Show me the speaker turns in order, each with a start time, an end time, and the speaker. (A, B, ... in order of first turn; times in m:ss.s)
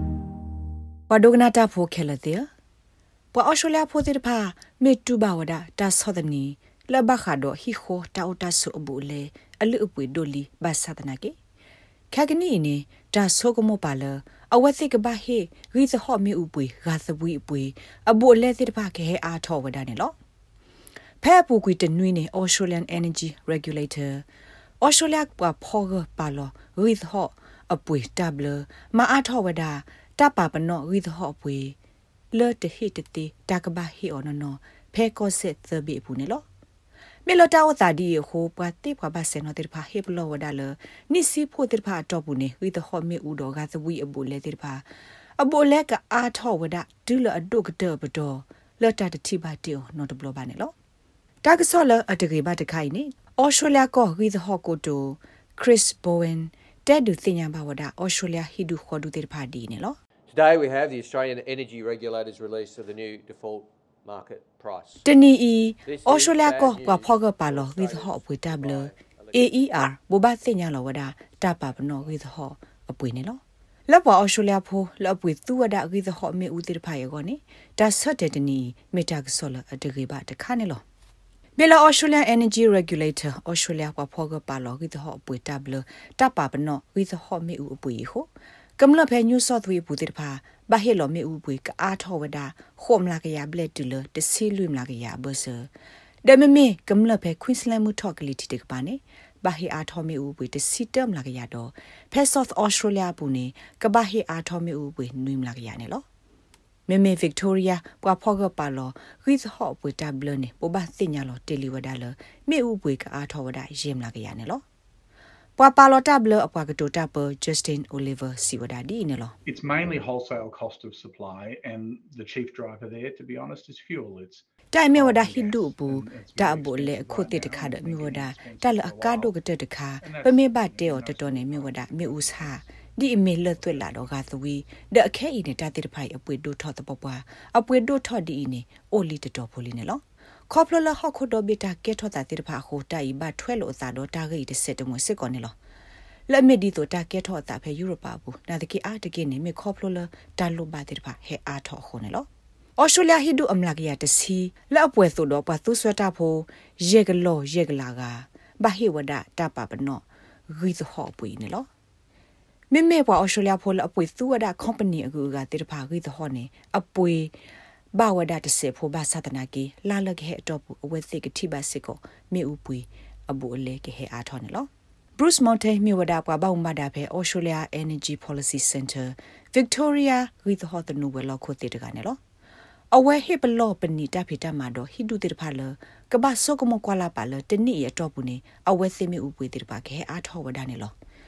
0:01.1-0:02.5 A
0:03.3-0:11.4 A
0:12.1-0:20.2 A
0:21.2-0:24.2 A
0:24.8-0:31.8 A
0:32.3-0:36.4 A
0:37.3-0:44.8 A
0:45.4-0:50.7 A
0:51.4-1:00.0 A
1:00.3-1:05.0 B
1:05.0-1:20.8 A
1:05.9-1:09.5 B
1:21.6-1:28.3 A
1:28.8-1:35.7 A
1:36.2-1:46.0 A
1:46.9-1:54.6 A
1:55.6-1:59.3 A
1:59.5-2:09.3 C
2:04.7-2:25.5 A
2:10.0-2:12.7 C
2:13.6-2:14.0 C
2:26.3-2:41.7 A
2:42.7-2:47.3 A
2:48.0-3:02.2 A
3:02.9-3:10.9 A